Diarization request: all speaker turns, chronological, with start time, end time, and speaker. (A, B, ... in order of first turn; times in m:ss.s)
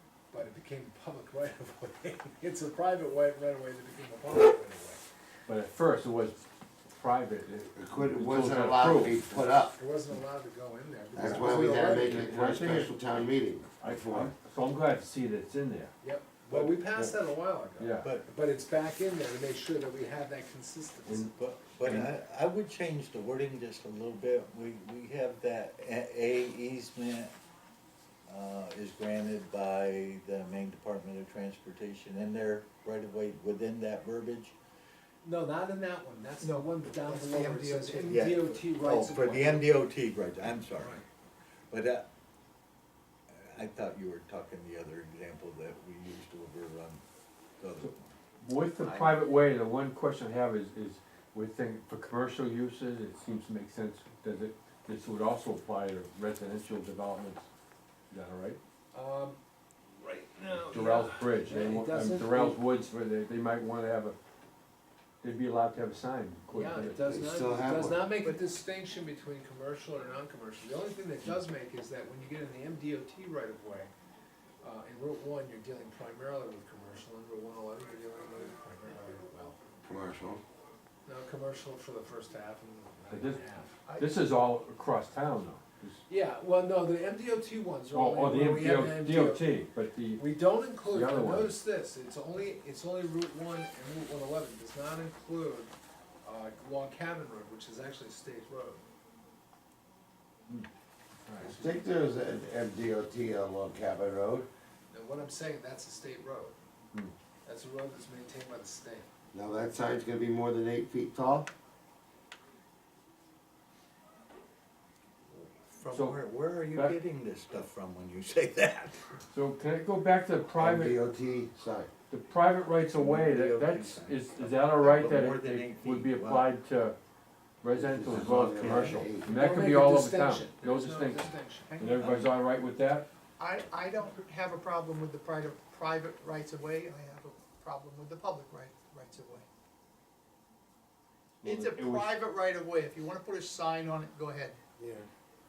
0:00.3-0:05.0 A
0:05.5-0:09.3 B
0:07.8-0:09.8 C
0:09.7-0:12.3 A
0:11.2-0:14.3 C
0:11.2-0:12.9 B
0:13.8-0:15.9 B
0:16.0-0:21.3 A
0:16.5-0:17.1 B
0:17.8-0:18.1 B
0:18.0-0:18.3 D
0:21.4-0:27.3 D
0:21.8-0:22.1 B
0:28.3-0:34.6 D
0:35.2-0:39.7 A
0:36.4-0:38.4 E
0:38.1-0:41.0 D
0:41.7-0:42.1 D
0:43.3-0:47.0 D
0:47.6-0:48.2 D
0:47.8-0:57.5 B
0:48.8-0:49.3 D
0:58.1-0:58.6 B
0:58.9-0:59.4 A
1:00.0-1:02.6 A
1:00.7-1:04.2 B
1:05.2-1:07.0 B
1:06.5-1:13.9 A
1:07.0-1:08.1 C
1:14.6-1:19.6 A
1:19.8-1:20.4 C
1:21.1-1:23.8 A
1:23.1-1:23.4 B
1:23.8-1:24.2 E
1:24.0-1:26.0 B
1:26.1-1:29.5 A
1:27.9-1:30.2 B
1:30.2-1:35.7 A
1:30.9-1:31.5 B
1:36.2-1:38.8 A
1:41.4-1:41.8 A
1:41.5-1:44.5 C
1:44.9-1:46.6 A
1:47.4-1:49.1 A
1:49.3-1:51.5 C
1:55.3-1:59.2 D
1:55.9-1:56.2 B
1:59.3-2:01.0 B
2:00.6-2:01.9 C
2:02.1-2:07.0 B
2:02.9-2:06.5 D
2:07.6-2:13.0 B
2:07.7-2:09.3 C
2:08.1-2:09.0 D
2:09.2-2:11.9 A
2:11.8-2:12.3 D
2:13.4-2:19.4 E
2:21.4-2:22.1 B
2:21.4-2:24.6 E
2:24.8-2:25.1 C